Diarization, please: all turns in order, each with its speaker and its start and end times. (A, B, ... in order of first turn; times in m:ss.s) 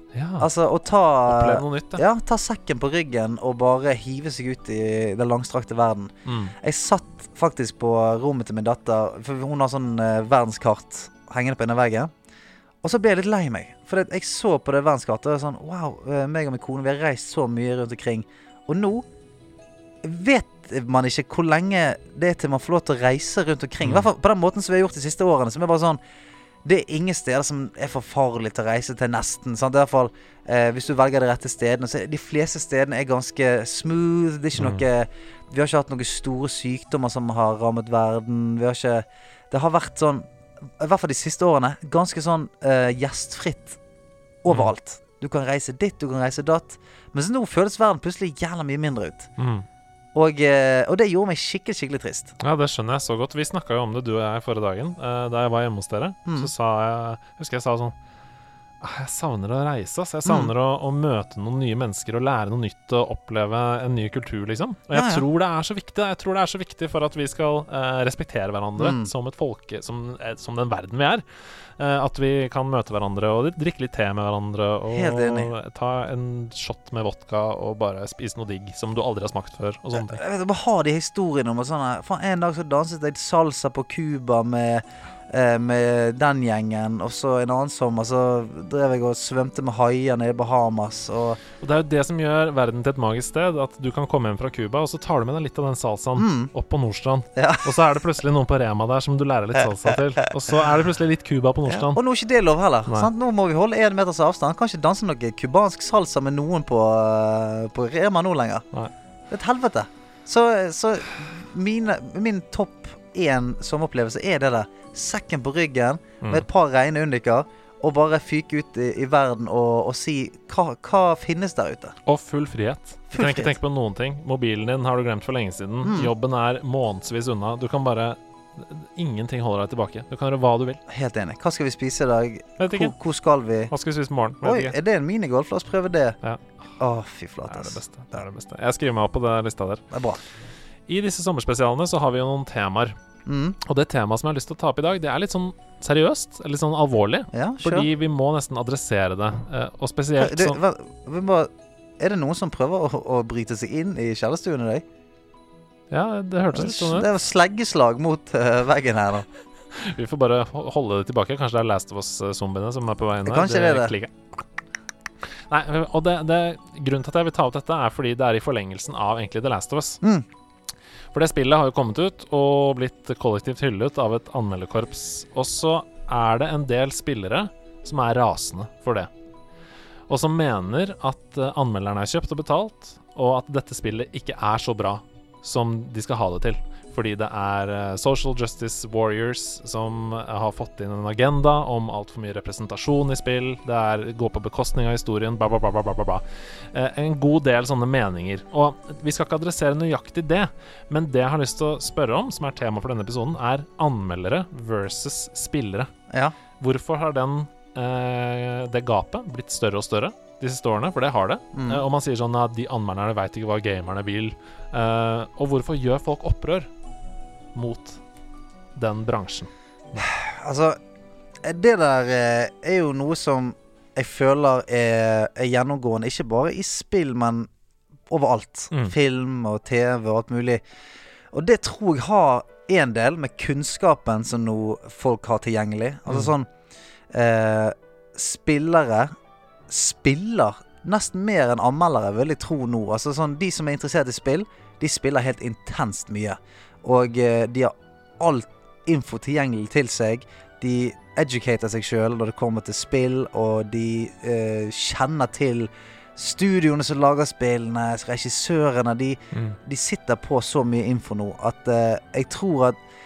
0:00.1-0:00.5 A
0:00.4-0:12.1 B
0:01.2-0:02.0 A
0:06.2-0:06.5 A
0:12.8-0:19.0 B
0:20.0-0:26.0 B
0:23.8-0:24.1 A
0:26.6-0:40.3 B
0:34.6-0:34.8 A
0:40.8-0:43.8 B
0:44.4-0:49.3 B
0:49.4-0:49.6 A
0:50.1-0:52.3 B
0:52.4-0:57.9 A
0:56.2-0:56.5 B
0:58.8-1:11.2 A
1:00.2-1:00.5 B
1:04.9-1:05.2 B
1:08.8-1:09.1 B
1:11.8-1:20.2 A
1:14.9-1:15.5 B
1:19.9-1:31.4 B
1:31.6-1:42.0 A
1:36.2-1:36.5 B
1:37.4-1:37.9 B
1:39.9-1:40.3 B
1:41.7-1:48.6 B
1:49.3-2:01.9 B
2:02.0-2:10.8 A
2:03.1-2:03.5 B
2:05.8-2:06.1 B
2:10.9-2:13.7 B
2:12.6-2:12.9 A
2:13.7-2:14.8 A
2:14.4-2:16.2 B
2:16.2-2:16.5 A
2:16.8-2:17.8 B
2:17.5-2:19.8 A
2:19.9-2:20.2 B
2:20.9-2:23.0 A
2:23.2-2:23.6 B
2:23.6-2:30.6 A
2:27.3-2:27.9 B
2:30.2-2:34.8 B
2:35.9-2:37.1 A
2:36.5-2:39.3 B
2:39.7-2:44.1 A
2:43.2-2:43.9 B
2:45.3-2:50.0 A
2:51.1-2:59.1 A
3:00.1-3:25.9 A
3:26.1-3:26.3 B
3:26.6-3:36.7 A
3:31.5-3:31.8 B
3:37.5-3:38.0 A
3:38.8-3:40.0 A
3:40.0-3:40.8 B
3:41.4-3:47.5 B
3:48.1-3:50.6 B
3:51.3-3:56.5 B
3:57.1-3:59.1 B
3:59.7-4:22.8 B
4:19.3-4:19.6 A